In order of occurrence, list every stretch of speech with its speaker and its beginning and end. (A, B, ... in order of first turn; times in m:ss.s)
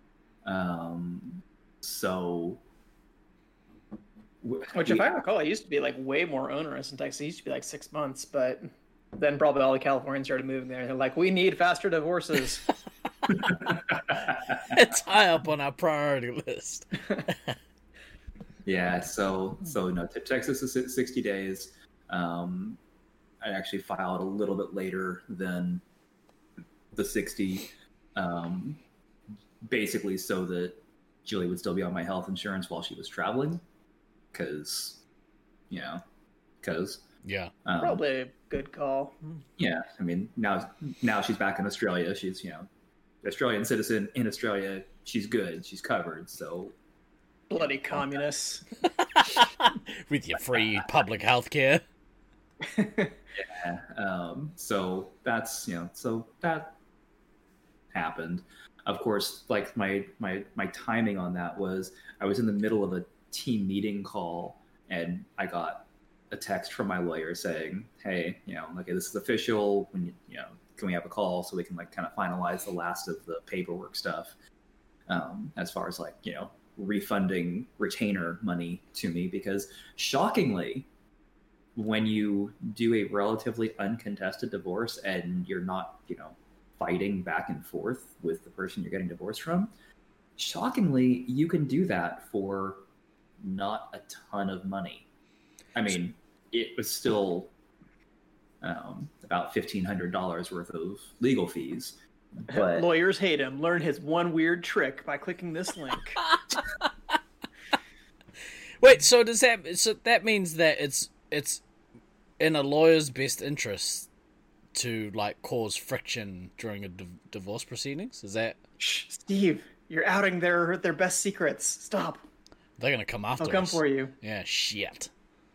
0:00.4-0:02.6 A
0:04.4-0:05.2 A
0:04.7-0:12.7 B
0:13.5-0:14.8 A
0:14.5-0:17.6 C
0:18.6-0:22.8 A
0:23.4-0:25.8 A
0:26.9-0:28.8 A
0:29.6-0:33.6 A
0:34.3-0:35.0 A
0:35.7-0:36.0 A
0:36.6-0:37.0 A
0:37.2-0:37.5 C
0:37.6-0:38.0 A
0:37.8-0:39.4 B
0:39.6-0:42.7 A
0:43.2-0:46.8 A
0:47.5-0:48.7 B
0:49.0-0:51.8 C
0:52.6-0:53.2 B
0:53.4-0:56.8 A
0:57.9-1:14.4 A
1:15.1-1:20.9 A
1:21.8-1:29.7 A
1:30.4-1:32.9 A
1:33.4-1:35.1 A
1:35.8-1:37.5 A
1:38.6-1:42.9 A
1:42.5-1:46.2 B
1:46.3-1:46.9 C
1:48.8-1:51.6 C
1:52.4-1:54.1 C
1:54.8-1:58.6 C
1:58.8-2:02.3 B
2:02.8-2:05.1 C
2:03.4-2:04.1 B